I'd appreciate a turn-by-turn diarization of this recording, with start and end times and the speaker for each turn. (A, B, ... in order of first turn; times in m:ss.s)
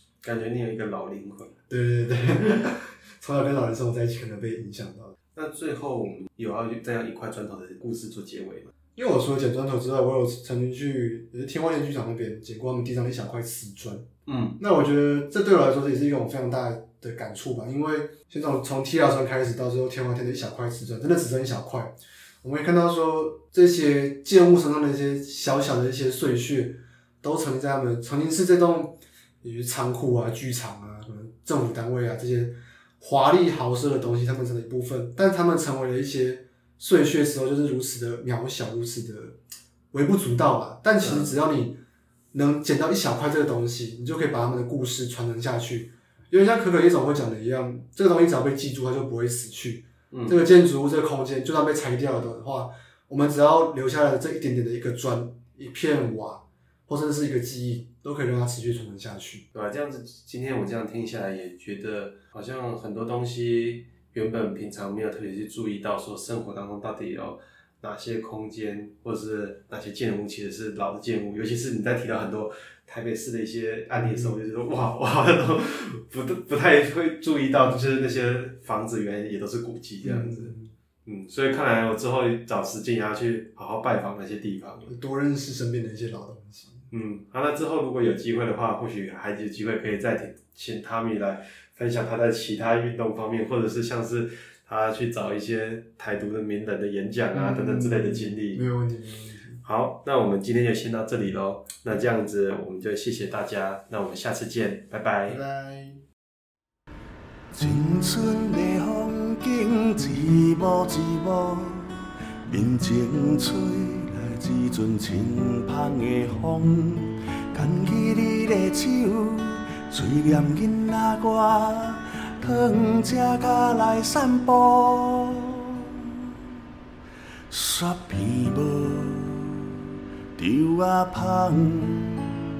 0:00.2-0:01.6 A
0:01.7-0:05.2 B
0:05.3-0:08.7 A
0:09.0-0:14.1 B
0:14.2-0:14.6 A
0:14.6-0:39.4 B
0:39.9-0:41.8 B
0:41.0-0:41.3 A
0:42.3-0:59.4 B
0:50.1-0:50.4 A
0:59.5-1:20.5 A
1:13.9-1:14.3 B
1:17.7-1:18.0 B
1:20.0-1:20.7 B
1:21.0-1:24.9 A
1:24.9-1:26.9 B
1:26.9-1:38.6 A
1:37.3-1:39.6 B
1:39.6-1:45.4 A
1:45.3-1:46.0 B
1:47.5-2:06.0 C
2:07.5-2:09.6 C
2:10.4-2:12.4 C